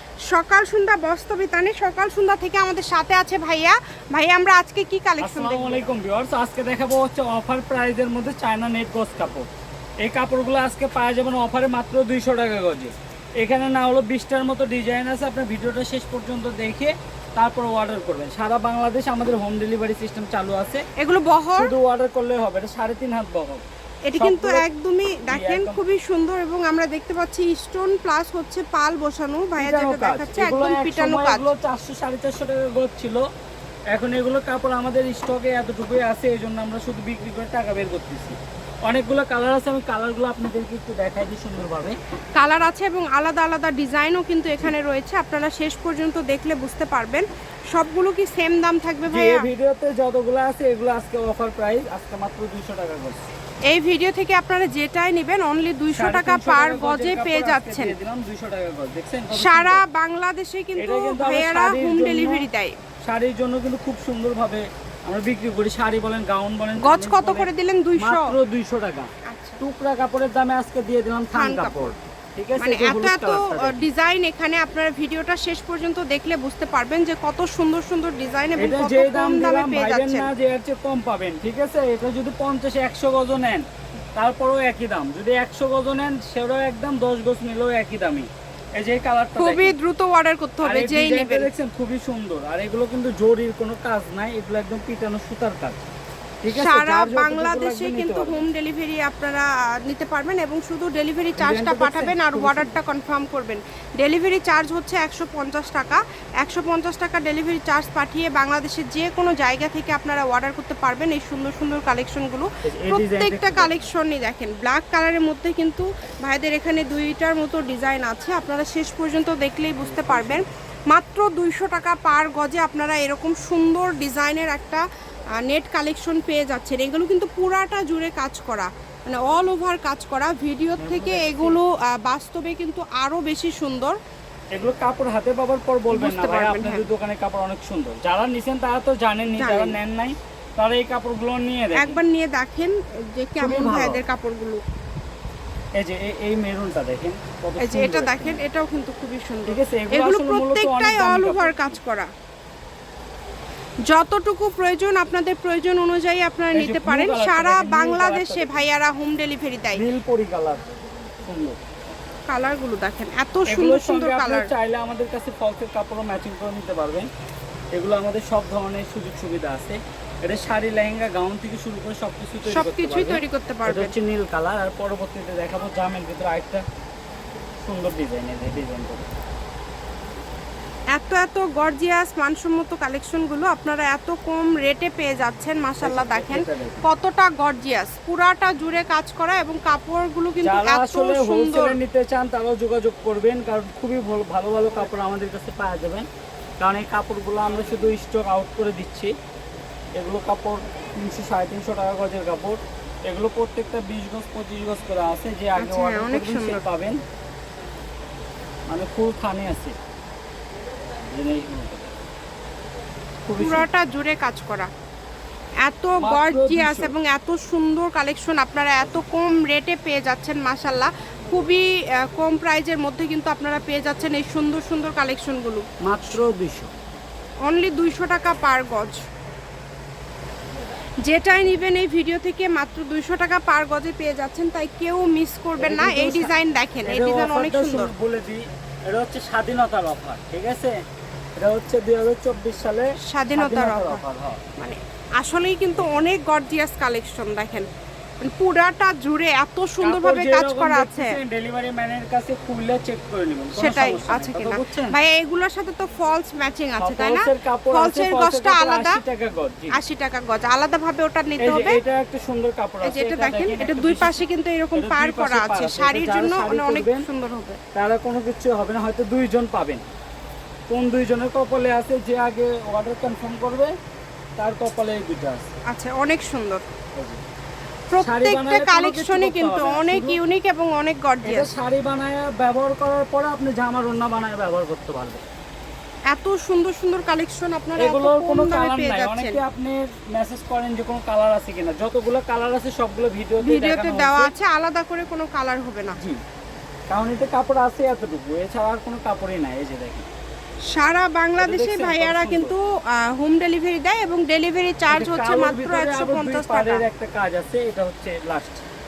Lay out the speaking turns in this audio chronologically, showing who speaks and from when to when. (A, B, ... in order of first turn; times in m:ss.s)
0:00.3-0:05.9 A
0:05.2-0:09.5 B
0:10.0-0:20.8 B
0:21.0-0:21.7 A
0:21.6-0:23.6 B
0:24.0-0:31.5 A
0:24.2-0:24.6 B
0:25.2-0:25.8 B
0:29.6-0:33.2 B
0:33.9-0:42.0 B
0:42.4-0:49.4 A
0:49.1-0:53.2 B
0:53.7-0:57.9 A
0:55.9-0:59.8 B
0:59.3-1:02.8 A
1:00.8-1:02.5 B
1:03.1-1:09.1 B
1:06.8-1:08.4 A
1:09.2-1:09.6 A
1:09.6-1:13.8 B
1:11.3-1:12.0 A
1:12.6-1:20.3 A
1:18.6-1:29.8 B
1:29.4-1:31.5 A
1:30.6-1:35.8 B
1:36.4-1:38.5 B
1:36.5-2:04.8 A
1:41.4-1:42.8 B
1:52.6-1:53.8 B
1:59.8-2:00.4 B
2:05.4-2:14.0 A
2:10.8-2:11.6 B
2:14.5-2:22.0 B
2:15.9-2:16.9 A
2:19.3-2:19.8 A
2:21.7-2:24.6 A
2:23.4-2:24.0 B
2:25.8-2:28.4 B
2:27.6-2:32.1 A
2:29.5-2:31.8 B
2:33.8-2:39.8 A
2:36.5-2:38.7 B
2:39.7-2:40.6 B
2:41.2-2:41.6 B
2:42.3-2:44.5 A
2:43.5-2:47.1 B
2:47.7-2:56.6 B
2:52.4-2:53.9 A
2:57.6-2:59.1 B
3:00.9-3:11.8 A
3:05.8-3:06.8 B
3:10.4-3:16.0 B
3:16.6-3:19.1 B
3:20.0-3:27.0 B
3:25.6-3:26.6 A
3:28.7-3:29.8 B
3:31.1-3:32.0 B
3:33.2-3:33.7 B
3:33.4-3:34.7 A
3:35.6-3:45.6 A
3:36.0-3:36.9 B
3:45.8-3:46.7 B
3:47.4-3:49.0 A
3:51.0-3:57.9 A
3:55.6-3:56.3 B
3:56.8-4:00.7 B
4:01.4-4:04.4 B
4:03.0-4:04.0 A
4:04.6-4:07.7 A
4:08.2-4:11.2 A
4:09.8-4:15.0 B
4:13.6-4:19.0 A
4:16.8-4:19.8 B
4:19.7-4:21.8 A
4:21.4-4:24.2 B
4:22.8-4:27.6 A
4:24.7-4:27.0 B
4:27.7-4:29.8 B
4:30.7-4:33.7 B
4:34.4-4:35.5 B
4:35.7-4:36.6 A
4:36.9-4:37.2 B
4:37.9-4:41.5 A
4:38.0-4:40.2 B
4:41.2-4:45.2 B
4:46.1-4:49.4 A
4:47.8-4:54.3 B
4:53.4-4:56.0 A
4:56.0-4:56.2 B
4:56.9-5:00.1 B
5:00.7-5:06.8 A
5:01.4-5:02.5 B
5:04.9-5:08.6 B